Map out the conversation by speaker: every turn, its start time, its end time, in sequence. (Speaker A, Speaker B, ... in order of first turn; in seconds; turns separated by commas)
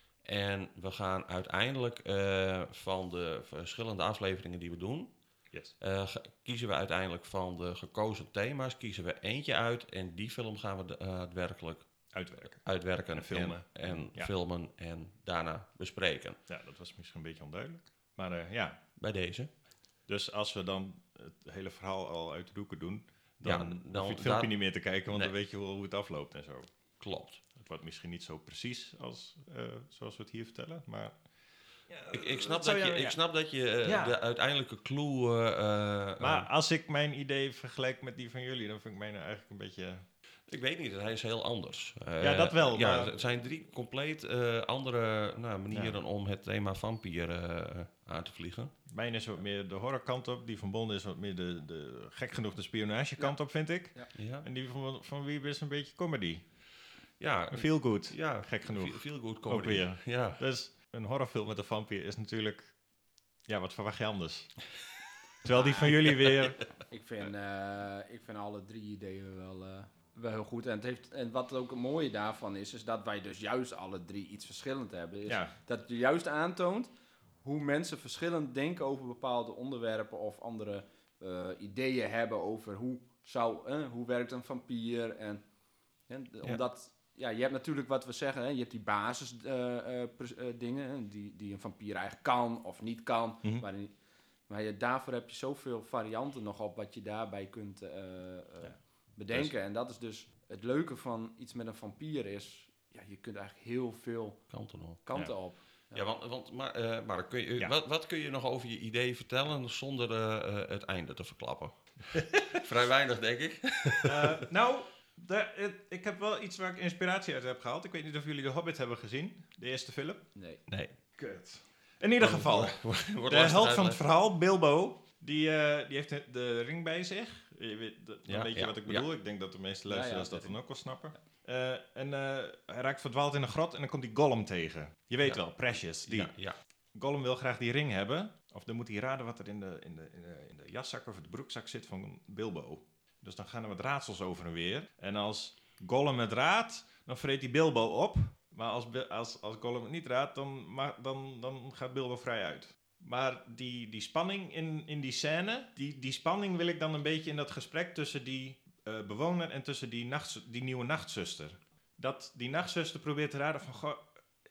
Speaker A: 0.2-5.1, Speaker A: 5.8-11.9, Speaker B: 12.1-14.3, Speaker A: 12.5-16.4, Speaker B: 16.5-18.8, Speaker A: 19.0-19.5, Speaker B: 20.1-26.7, Speaker A: 23.4-24.5, Speaker A: 27.0-27.4, Speaker B: 27.6-31.2, Speaker B: 31.9-33.2, Speaker A: 32.1-36.5, Speaker B: 33.8-34.2, Speaker B: 36.2-40.0, Speaker A: 40.5-48.8, Speaker B: 42.2-43.2, Speaker B: 45.7-46.0, Speaker B: 48.9-56.4, Speaker A: 54.1-54.5, Speaker A: 57.2-60.4, Speaker B: 57.5-62.7, Speaker B: 63.5-64.6, Speaker B: 65.4-66.6, Speaker C: 65.5-66.0, Speaker C: 66.9-76.9, Speaker B: 75.3-75.5, Speaker C: 77.4-85.4, Speaker C: 86.1-93.9, Speaker C: 94.5-104.5, Speaker A: 104.5-105.0, Speaker C: 105.0-106.1, Speaker A: 105.9-111.9, Speaker B: 112.2-112.4, Speaker A: 112.5-114.4, Speaker B: 114.0-136.3, Speaker C: 120.3-120.6, Speaker A: 122.2-124.0, Speaker A: 128.3-129.1, Speaker C: 129.9-130.6, Speaker A: 135.2-136.6, Speaker B: 136.9-164.1